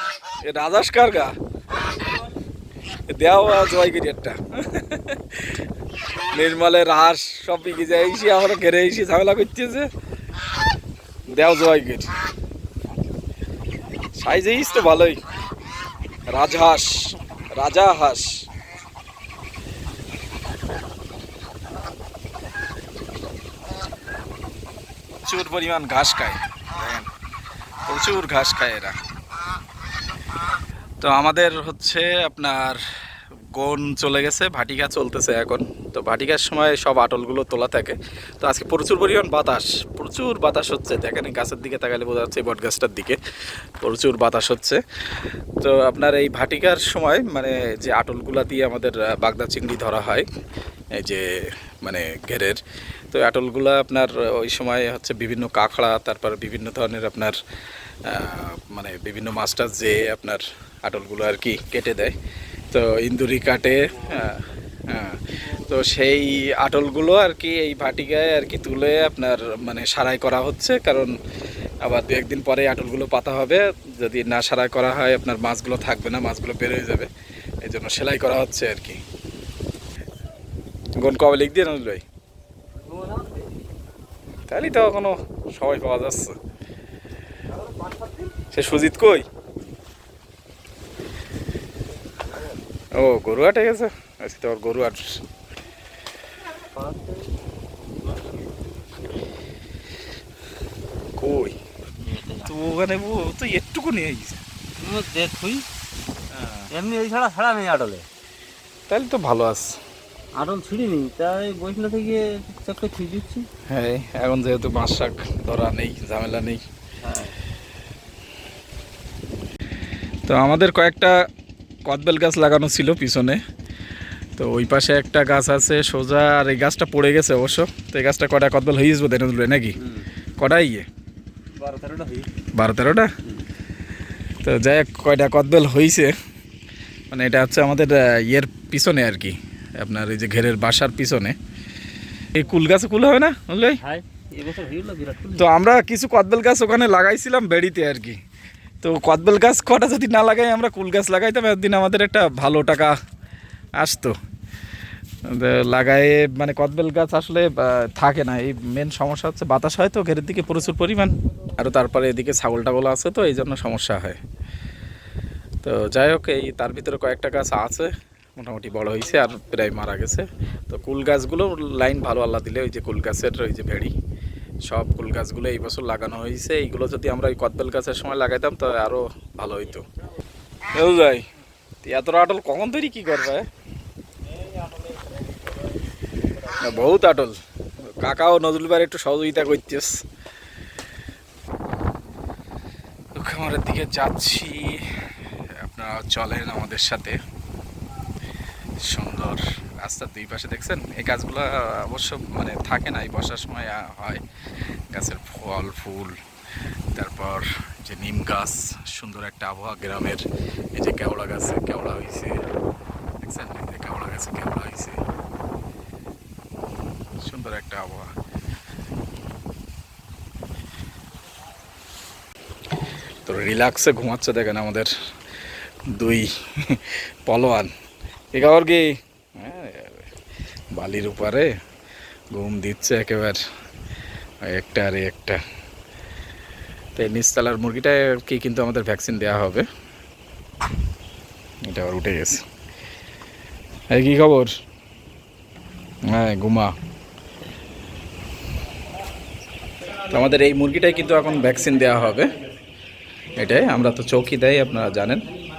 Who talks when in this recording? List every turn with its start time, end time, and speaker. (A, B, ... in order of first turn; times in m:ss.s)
0:00.4-0:01.3 A
0:03.1-0:05.6 A
0:06.3-0:09.9 A
0:11.3-0:12.1 A
0:14.2-0:15.2 A
0:16.3-0:18.4 A
0:25.2-0:27.1 A
0:27.8-0:29.0 A
0:31.0-0:32.8 A
0:33.5-0:43.2 A
0:43.8-0:44.8 A
0:45.6-0:50.3 A
0:51.0-0:51.2 A
0:51.8-0:52.6 A
0:53.1-0:57.4 A
0:58.0-1:02.1 A
1:02.7-1:11.1 A
1:11.8-1:17.1 A
1:17.6-1:19.0 A
1:21.0-1:22.0 A
1:22.8-1:23.4 B
1:24.5-1:26.4 A
1:27.5-1:28.3 B
1:28.5-1:29.2 A
1:33.0-1:35.2 A
1:36.6-1:37.3 B
1:41.2-1:41.6 A
1:42.0-1:42.5 B
1:42.4-1:44.4 A
1:44.8-1:45.6 B
1:46.3-1:46.7 A
1:46.7-1:48.0 B
1:48.9-1:49.8 A
1:50.4-1:53.4 B
1:53.7-1:56.6 A
1:57.0-1:57.4 B
2:00.3-2:01.1 A
2:01.9-2:03.4 A
2:04.4-2:09.8 A
2:09.8-2:10.1 B
2:10.4-2:10.8 A
2:11.6-2:12.3 B
2:12.5-2:13.1 A
2:14.4-2:16.1 A
2:17.1-2:21.4 A
2:22.3-2:23.8 A
2:23.8-2:25.5 B
2:25.4-2:28.2 A
2:28.8-2:32.9 A
2:33.8-2:34.1 A
2:35.3-2:44.2 A
2:45.6-2:53.9 A
2:54.7-2:59.8 A
3:00.7-3:01.2 A
3:01.8-3:03.4 A
3:06.4-3:07.4 A
3:08.0-3:10.0 A
3:13.1-3:14.9 A
3:15.6-3:17.2 A
3:18.8-3:24.2 A
3:24.9-3:26.1 A
3:26.9-3:30.2 A
3:30.8-3:32.4 A
3:33.2-3:35.0 A
3:37.2-3:38.1 A
3:43.2-3:44.9 A
3:45.9-3:47.7 A
3:48.3-3:50.1 A
3:50.7-3:51.5 A
3:52.3-3:53.4 A
3:54.5-3:55.4 A
3:57.0-3:59.6 A
4:01.7-4:02.4 A
4:03.9-4:04.5 A
4:06.1-4:06.7 A
4:10.1-4:12.3 A
4:13.3-4:15.3 A